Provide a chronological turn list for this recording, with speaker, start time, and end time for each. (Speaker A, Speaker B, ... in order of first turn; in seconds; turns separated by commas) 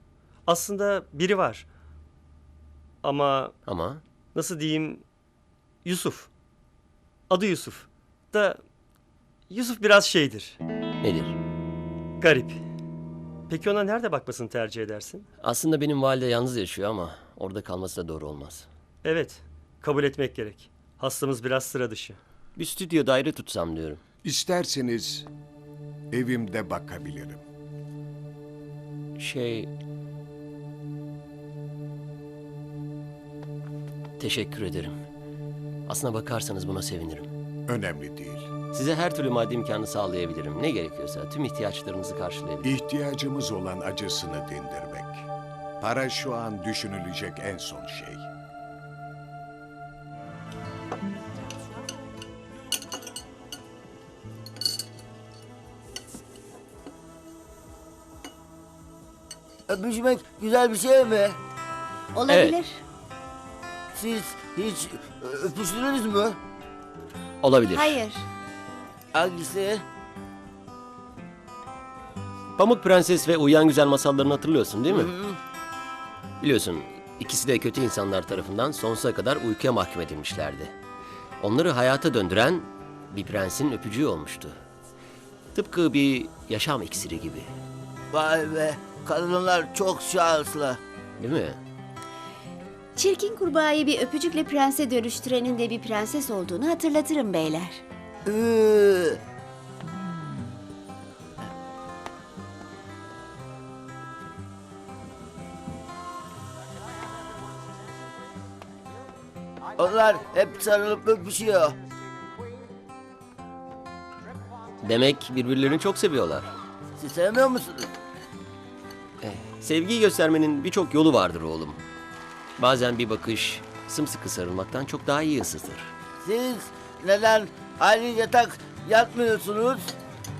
Speaker A: 0.4-1.7, Speaker A: 3.0-3.5, Speaker B: 3.6-4.0, Speaker A: 4.3-5.0, Speaker A: 5.8-6.3, Speaker A: 7.3-8.6, Speaker A: 9.5-10.6, Speaker B: 11.0-11.4, Speaker A: 12.2-12.6, Speaker A: 13.5-15.3, Speaker B: 15.4-18.7, Speaker A: 19.0-22.2, Speaker B: 22.6-24.0, Speaker C: 24.2-25.3, Speaker C: 26.1-27.4, Speaker B: 29.2-29.7, Speaker B: 34.2-35.0, Speaker B: 35.9-37.3, Speaker C: 37.7-38.5, Speaker B: 38.7-42.7, Speaker C: 42.6-45.3, Speaker C: 45.8-48.3, Speaker D: 59.7-61.4, Speaker E: 62.1-62.8, Speaker B: 62.3-62.6, Speaker D: 63.9-66.4, Speaker B: 67.4-68.0, Speaker E: 67.7-68.2, Speaker D: 69.1-69.8, Speaker B: 72.6-75.1, Speaker D: 74.9-75.4, Speaker B: 76.4-80.7, Speaker B: 81.4-84.6, Speaker B: 85.5-87.5, Speaker D: 88.1-90.8, Speaker B: 91.2-91.6, Speaker E: 93.0-97.8, Speaker D: 98.2-99.2, Speaker D: 109.8-111.8, Speaker B: 114.8-116.5, Speaker D: 117.0-117.9, Speaker B: 119.2-121.8, Speaker B: 122.6-125.9, Speaker D: 126.2-129.9